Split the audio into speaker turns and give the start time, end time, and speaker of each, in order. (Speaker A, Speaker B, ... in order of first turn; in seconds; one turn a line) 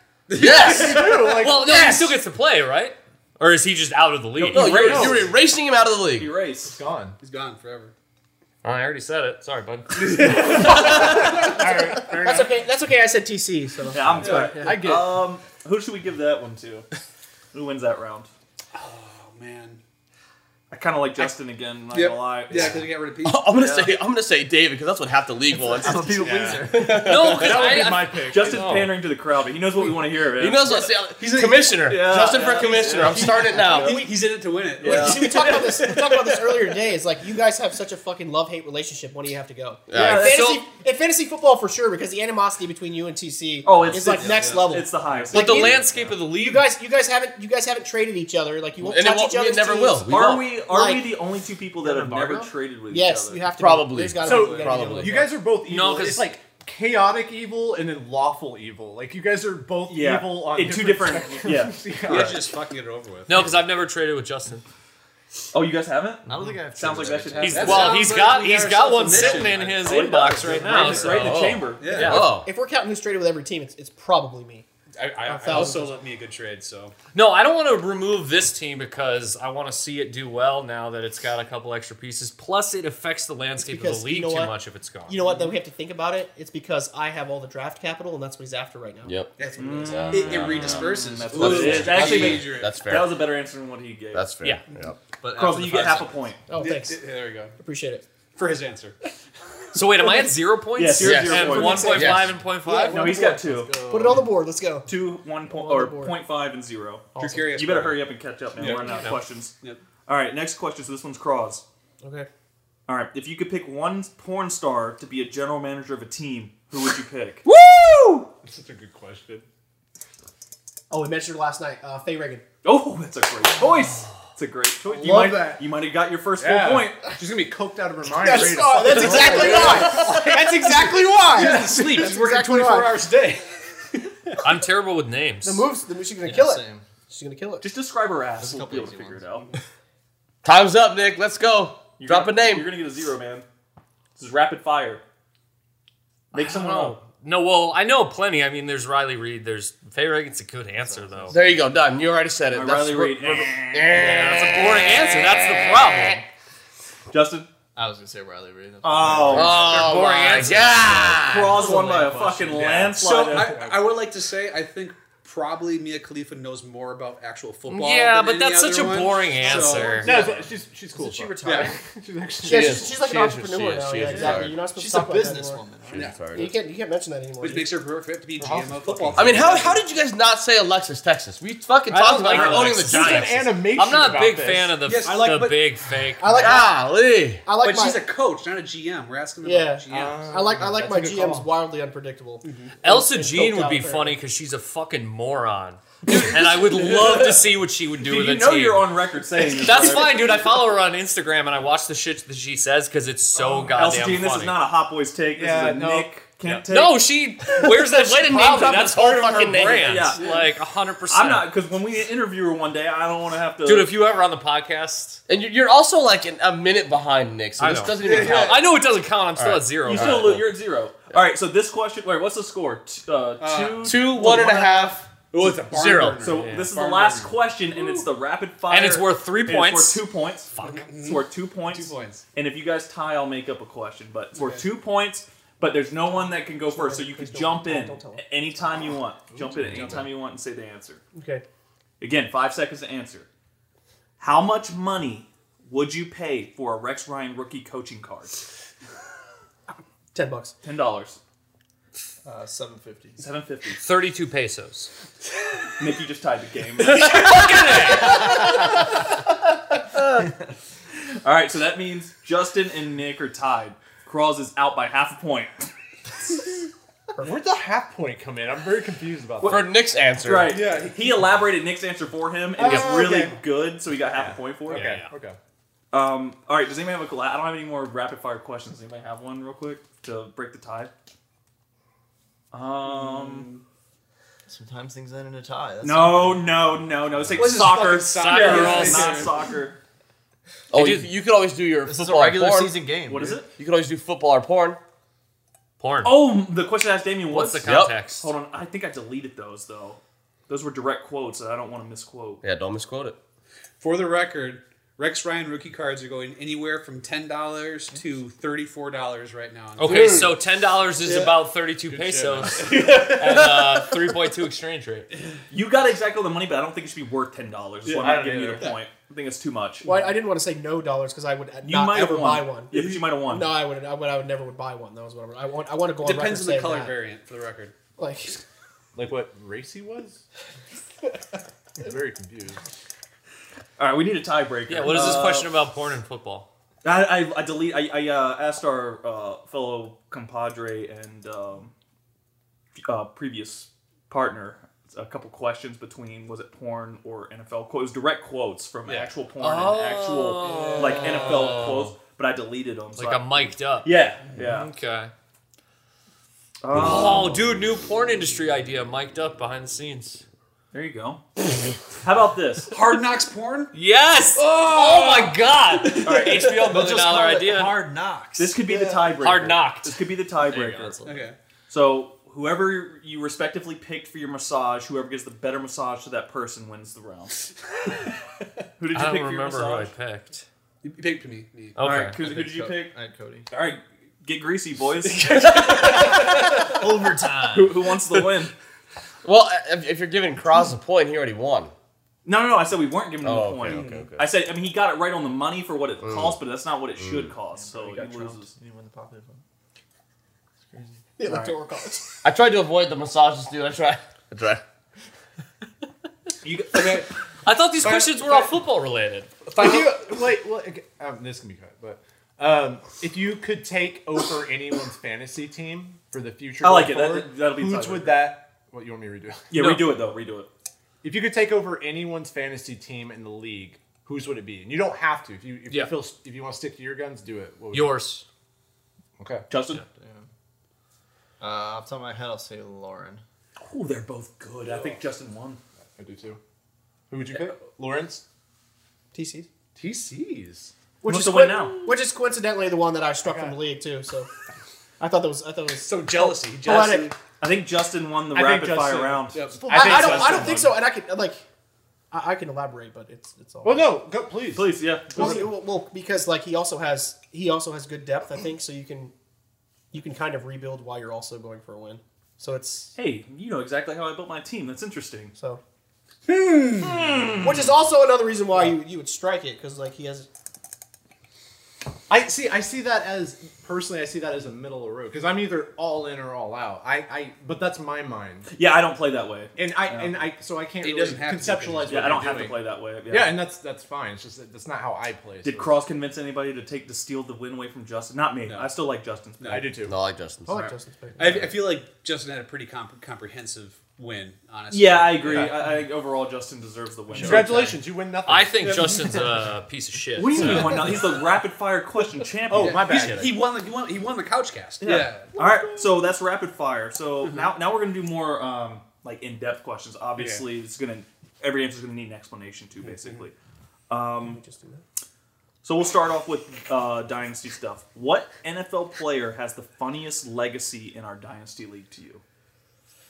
Speaker A: 0.3-1.1
Speaker B: 0.3-1.2
Speaker C: 0.3-2.2
Speaker D: 1.1-5.3
Speaker E: 4.4-5.3
Speaker B: 4.5-6.3
Speaker C: 4.7-5.3
Speaker E: 6.2-6.8
Speaker C: 6.7-7.2
Speaker A: 7.2-7.9
Speaker D: 8.6-10.7
Speaker A: 9.9-11.5
Speaker F: 10.6-14.9
Speaker C: 10.7-12.6
Speaker E: 13.9-16.9
Speaker C: 14.1-15.2
Speaker A: 14.2-14.6
Speaker E: 17.5-18.3
Speaker A: 18.7-19.8
Speaker E: 20.7-22.9
Speaker A: 21.9-23.6
Speaker B: 23.2-27.6
Speaker G: 25.5-27.2
Speaker C: 26.2-28.9
Speaker D: 26.9-28.9
Speaker E: 28.3-30.6
Speaker B: 30.4-34.0
Speaker A: 30.6-35.5
Speaker E: 31.9-33.3
Speaker F: 33.5-34.1
Speaker F: 34.8-51.1
Speaker E: 34.8-35.6
Speaker B: 39.9-40.4
Speaker E: 39.9-40.4
Speaker D: 40.1-40.6
Speaker E: 43.6-45.8
Speaker A: 44.0-45.2
Speaker G: 44.2-44.5
Speaker D: 45.3-46.6
Speaker B: 48.8-50.5
Speaker E: 50.1-53.4
Speaker F: 51.8-55.4
Speaker B: 53.5-55.3
Speaker C: 54.2-62.5
Speaker D: 55.6-56.3
Speaker E: 59.9-62.4
Speaker A: 62.0-63.6
Speaker D: 63.3-64.6
Speaker E: 65.5-68.1
Speaker G: 66.3-68.1
Speaker D: 67.4-72.3
Speaker A: 67.5-72.3
Speaker E: 69.1-72.2
Speaker G: 70.4-70.9
Speaker B: 71.2-72.5
Speaker F: 72.4-74.7
Speaker A: 75.0-76.9
Speaker F: 75.2-76.0
Speaker D: 77.1-85.2
Speaker F: 83.6-84.6
Speaker F: 85.1-89.2
Speaker B: 89.1-93.3
Speaker A: 89.4-92.8
Speaker E: 89.6-94.3
Speaker B: 94.1-95.0
Speaker G: 95.2-96.3
Speaker E: 95.3-96.4
Speaker F: 96.5-98.0
Speaker A: 96.5-97.5
Speaker A: 98.3-99.0
Speaker D: 99.7-103.2
Speaker E: 100.8-102.0
Speaker B: 101.0-102.4
Speaker F: 101.4-103.2
Speaker E: 102.9-103.8
Speaker G: 103.2-104.3
Speaker F: 103.9-104.9
Speaker E: 104.9-109.5
Speaker F: 105.5-106.2
Speaker F: 107.2-107.6
Speaker A: 107.2-109.8
Speaker D: 108.7-109.2
Speaker E: 110.1-111.6
Speaker F: 112.0-112.3
Speaker E: 112.9-117.5
Speaker C: 118.5-119.5
Speaker F: 120.9-122.4
Speaker E: 122.6-127.1
Speaker C: 124.9-125.6
Speaker A: 125.1-125.4
Speaker C: 126.4-130.2
Speaker A: 127.2-134.4
Speaker F: 128.2-133.0
Speaker D: 134.4-135.7
Speaker F: 135.4-137.7
Speaker G: 136.2-136.8
Speaker E: 137.6-139.5
Speaker G: 138.4-139.3
Speaker B: 140.4-142.7
Speaker E: 142.0-143.5
Speaker E: 144.2-145.0
Speaker E: 146.3-147.0
Speaker D: 146.3-151.4
Speaker G: 150.8-151.5
Speaker B: 151.3-156.2
Speaker E: 152.5-154.0
Speaker D: 153.9-156.3
Speaker E: 157.1-157.5
Speaker G: 157.8-159.9
Speaker E: 158.8-159.8
Speaker B: 159.3-161.7
Speaker D: 159.6-160.8
Speaker E: 161.0-163.6
Speaker C: 161.6-164.0
Speaker A: 161.7-161.9
Speaker A: 162.9-170.5
Speaker D: 167.7-170.2
Speaker C: 170.0-173.0
Speaker A: 171.4-171.7
Speaker F: 172.4-175.6
Speaker B: 172.4-174.6
Speaker G: 174.2-176.1
Speaker B: 175.9-176.5
Speaker F: 176.2-177.7
Speaker A: 177.4-179.8
Speaker C: 178.4-179.6
Speaker B: 179.2-183.5
Speaker C: 181.9-185.2
Speaker D: 182.1-186.6
Speaker A: 184.8-185.7
Speaker F: 186.2-186.8
Speaker B: 186.3-187.4
Speaker F: 187.4-188.0
Speaker A: 187.6-190.5
Speaker F: 189.4-194.2
Speaker C: 189.9-191.4
Speaker A: 192.4-192.8
Speaker D: 192.8-204.6
Speaker E: 196.9-197.3
Speaker E: 198.0-200.4
Speaker C: 203.4-203.8
Speaker E: 203.8-207.1
Speaker C: 205.4-206.6
Speaker D: 206.7-211.5
Speaker B: 207.5-210.2
Speaker E: 209.7-210.4
Speaker E: 211.1-214.0
Speaker D: 213.6-215.2
Speaker B: 215.3-218.7
Speaker D: 217.6-220.5
Speaker A: 217.9-218.7
Speaker B: 219.4-220.5
Speaker E: 219.8-224.4
Speaker A: 223.4-228.0
Speaker B: 223.8-226.2
Speaker E: 226.2-241.0
Speaker D: 226.3-226.7
Speaker D: 228.7-230.0
Speaker D: 230.6-230.9
Speaker A: 230.6-232.2
Speaker A: 234.3-234.7
Speaker F: 236.3-238.2
Speaker C: 239.3-240.1
Speaker F: 241.2-241.4
Speaker E: 242.0-243.3
Speaker E: 244.2-248.4
Speaker F: 250.1-250.5
Speaker E: 250.6-251.2
Speaker G: 252.2-253.3
Speaker E: 253.2-253.8
Speaker D: 253.8-254.9
Speaker E: 255.8-258.0
Speaker D: 256.8-258.4
Speaker A: 257.7-258.0
Speaker E: 261.2-265.7
Speaker C: 267.2-269.7
Speaker E: 269.4-269.7
Speaker B: 269.4-270.6
Speaker E: 270.2-274.9
Speaker C: 270.5-271.2
Speaker C: 272.6-273.4
Speaker C: 274.1-275.4
Speaker D: 274.7-275.1
Speaker E: 275.9-280.9
Speaker E: 282.5-283.5
Speaker A: 282.9-283.6
Speaker G: 284.5-287.8
Speaker E: 285.8-289.8
Speaker A: 287.3-289.5
Speaker D: 288.1-289.3
Speaker B: 290.7-292.8
Speaker D: 290.7-291.1
Speaker G: 291.9-293.4
Speaker E: 293.1-293.5
Speaker B: 293.6-294.8
Speaker D: 295.8-296.3
Speaker E: 296.0-302.4
Speaker D: 297.3-298.3
Speaker B: 297.6-297.9
Speaker B: 302.4-303.2
Speaker A: 303.8-310.5
Speaker D: 309.8-315.1
Speaker A: 311.0-311.4
Speaker C: 311.8-313.6
Speaker A: 312.6-313.4
Speaker E: 315.5-319.9
Speaker A: 317.9-318.8
Speaker C: 318.0-318.8
Speaker F: 319.8-327.0
Speaker E: 321.6-323.6
Speaker A: 322.7-323.1
Speaker A: 326.0-327.7
Speaker F: 328.0-328.4
Speaker C: 328.9-330.2
Speaker C: 331.8-332.6
Speaker E: 333.8-335.5
Speaker D: 334.7-336.5
Speaker E: 336.8-341.7
Speaker E: 342.8-354.7
Speaker A: 348.9-349.1
Speaker D: 349.4-351.9
Speaker A: 350.4-351.7
Speaker D: 353.0-355.1
Speaker E: 356.6-357.4
Speaker D: 356.7-360.2
Speaker E: 360.7-361.2
Speaker E: 362.0-362.7
Speaker A: 362.7-363.7
Speaker D: 363.7-367.9
Speaker E: 366.0-366.8
Speaker G: 366.3-369.0
Speaker E: 368.4-371.0
Speaker D: 369.2-370.0
Speaker G: 370.4-371.3
Speaker A: 371.0-371.4
Speaker E: 371.7-377.5
Speaker E: 378.8-379.9
Speaker D: 378.9-380.5
Speaker A: 380.8-381.8
Speaker D: 381.8-382.2
Speaker E: 381.8-383.0
Speaker G: 382.1-383.5
Speaker E: 383.5-386.4
Speaker G: 385.2-387.9
Speaker E: 387.5-388.5
Speaker B: 389.2-391.7
Speaker E: 392.2-398.5
Speaker B: 393.2-394.3
Speaker A: 393.6-394.1
Speaker B: 396.0-396.4
Speaker B: 397.0-397.3
Speaker G: 397.5-399.4
Speaker G: 400.7-401.0
Speaker F: 401.2-402.1
Speaker E: 401.3-401.5
Speaker B: 402.2-404.6
Speaker E: 406.4-407.0
Speaker A: 406.7-407.1
Speaker D: 407.4-409.4
Speaker A: 407.8-408.5
Speaker A: 409.5-410.2
Speaker C: 409.6-419.5
Speaker E: 416.6-418.4
Speaker E: 419.5-420.5
Speaker D: 419.6-419.9
Speaker C: 421.0-428.0
Speaker D: 425.7-425.9
Speaker D: 427.7-428.2
Speaker C: 429.2-429.5
Speaker E: 429.5-429.8
Speaker G: 429.9-430.3
Speaker G: 431.4-433.2
Speaker E: 433.6-435.6
Speaker C: 436.0-436.4
Speaker C: 437.1-438.2
Speaker F: 439.1-439.5
Speaker C: 439.8-440.7
Speaker F: 441.0-444.3
Speaker E: 441.1-441.9
Speaker C: 443.2-443.6
Speaker F: 445.0-447.1
Speaker A: 445.8-447.2
Speaker E: 447.4-450.6
Speaker C: 448.3-450.7
Speaker A: 449.3-450.6
Speaker F: 449.7-451.4
Speaker F: 452.1-454.0
Speaker C: 453.6-455.4
Speaker E: 454.6-455.5
Speaker F: 455.1-459.1
Speaker F: 459.9-462.9
Speaker E: 463.0-465.3
Speaker A: 466.3-467.3
Speaker E: 466.8-467.7
Speaker F: 467.4-470.3
Speaker C: 472.1-478.5
Speaker E: 478.5-480.3
Speaker C: 479.6-485.8
Speaker A: 480.8-482.5
Speaker E: 481.8-483.4
Speaker E: 485.4-489.7
Speaker A: 488.5-488.7
Speaker A: 489.4-489.8
Speaker C: 489.5-489.9
Speaker B: 489.9-490.6
Speaker F: 490.5-491.5
Speaker E: 490.5-490.7
Speaker A: 491.2-495.6
Speaker E: 494.7-497.8
Speaker G: 497.1-497.7
Speaker C: 497.1-498.9
Speaker D: 498.3-500.9
Speaker A: 498.6-499.2
Speaker E: 500.2-503.1
Speaker C: 500.4-500.8
Speaker C: 502.5-503.4
Speaker A: 502.5-505.4
Speaker E: 504.8-513.3
Speaker A: 510.2-510.4
Speaker A: 512.8-513.2
Speaker E: 513.9-514.4
Speaker F: 514.2-514.8
Speaker E: 515.6-522.2